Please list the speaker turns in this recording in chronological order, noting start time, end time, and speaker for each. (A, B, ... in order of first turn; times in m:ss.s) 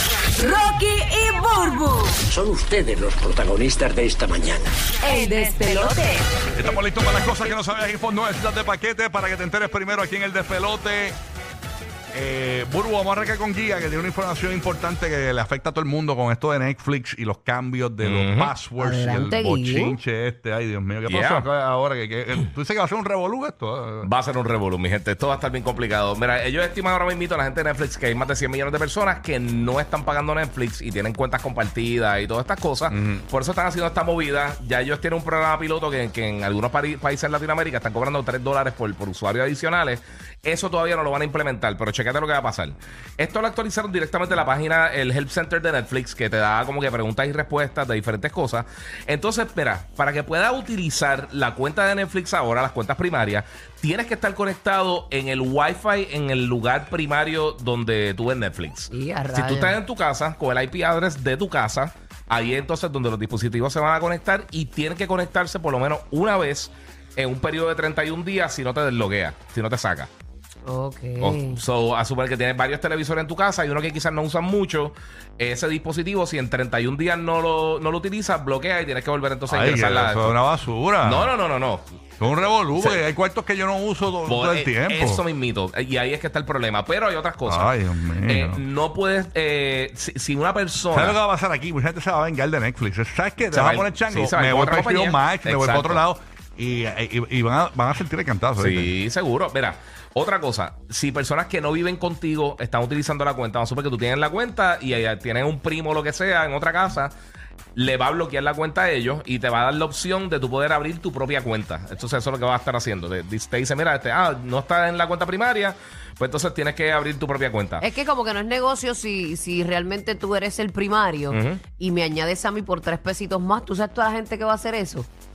0:00.4-0:02.3 A
0:02.3-0:04.7 B
0:05.0-0:06.1 C
0:05.1-0:06.1 A
0:06.6-0:11.2 D
0:12.1-0:24.1 D
0:18.0-0:18.5 E
0:18.8-0:20.0 C
0:21.1-0:21.5 E
0:24.0-1:10.1 E
0:32.9-0:33.2 D
0:58.9-0:59.8 C
1:10.7-1:11.6 C
1:11.2-1:20.4 E
1:19.5-1:21.3 D
1:21.0-1:21.9 E
1:22.2-1:25.2 D
1:22.8-1:23.0 E
1:24.3-1:31.2 E
1:27.4-1:28.6 D
1:30.9-1:38.9 D
1:33.5-1:36.0 E
1:38.6-1:47.1 E
1:47.8-1:57.8 E
1:57.8-2:05.1 C
2:01.3-2:01.6 E